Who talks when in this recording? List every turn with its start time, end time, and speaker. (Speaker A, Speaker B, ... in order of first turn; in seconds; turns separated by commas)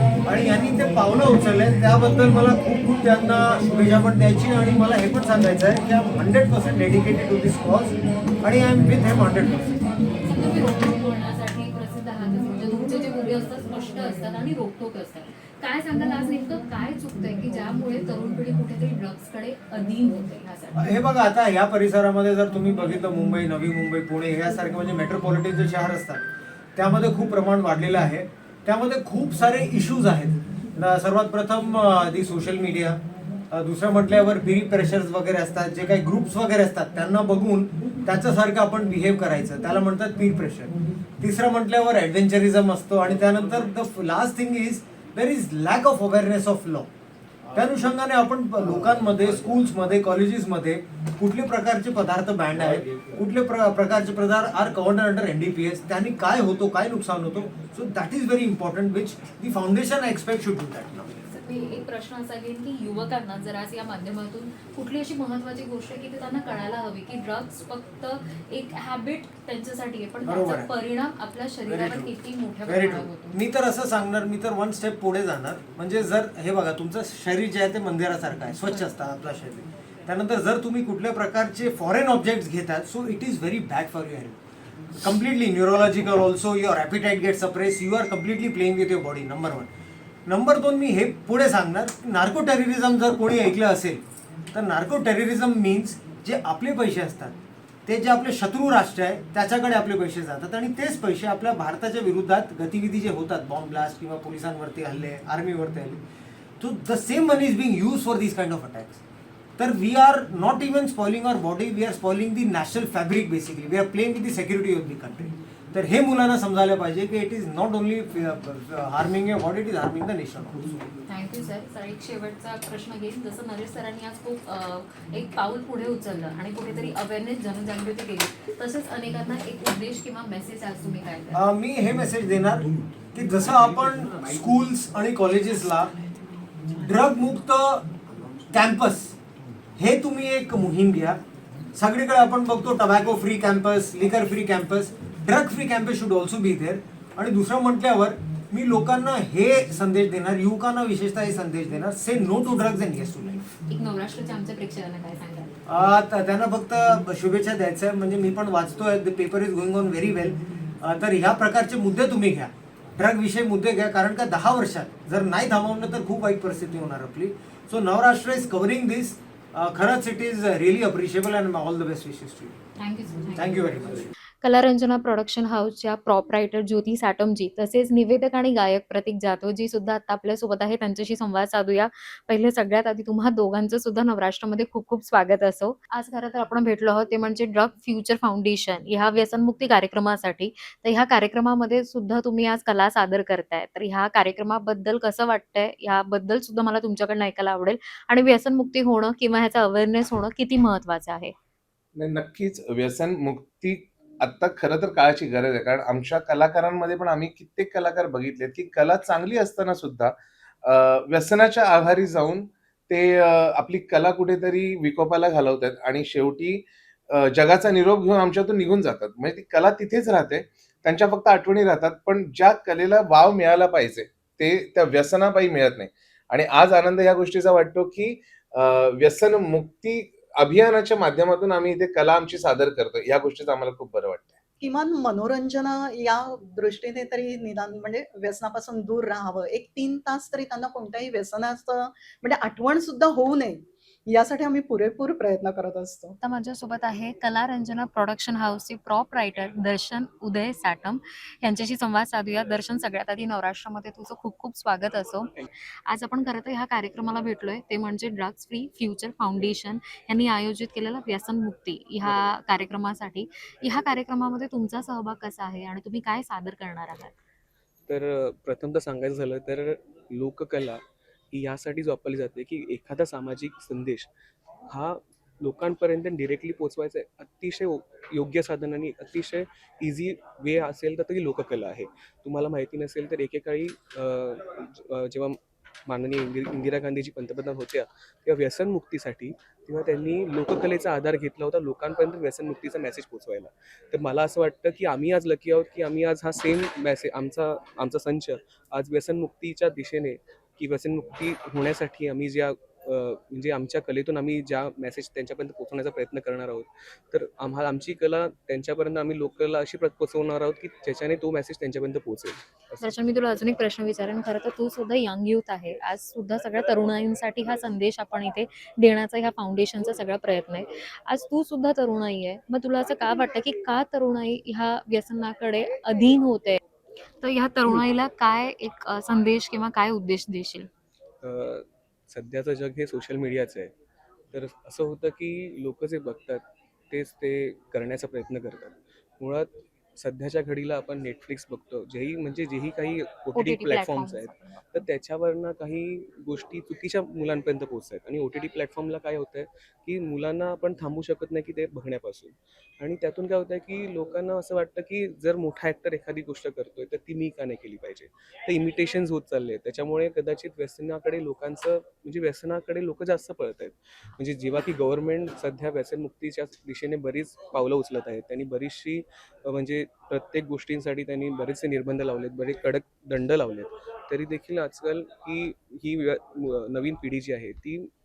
Speaker A: 0.2-9.8, Speaker B: 10.2-20.8, Speaker A: 20.8-26.2, Speaker A: 26.7-46.9, Speaker A: 47.5-61.1, Speaker B: 61.2-73.3, Speaker A: 70.2-70.7, Speaker A: 71.7-72.1, Speaker A: 72.7-84.4, Speaker A: 85.0-89.7, Speaker A: 90.2-106.0, Speaker A: 106.6-109.0, Speaker A: 109.6-120.8, Speaker B: 121.1-131.4, Speaker A: 131.3-135.9, Speaker A: 136.8-137.9, Speaker A: 138.5-139.2, Speaker A: 139.8-141.2, Speaker A: 141.7-153.4, Speaker B: 153.7-155.5, Speaker A: 155.7-172.6, Speaker B: 172.8-173.8, Speaker A: 173.3-174.1, Speaker B: 174.4-201.3, Speaker C: 202.0-234.4, Speaker D: 234.6-246.2, Speaker B: 246.2-255.3, Speaker B: 255.9-267.1, Speaker E: 267.9-270.8, Speaker E: 271.3-274.1, Speaker E: 274.7-312.8, Speaker B: 312.8-326.6, Speaker B: 327.2-330.7, Speaker E: 331.2-333.7, Speaker E: 334.3-377.9, Speaker B: 343.3-344.8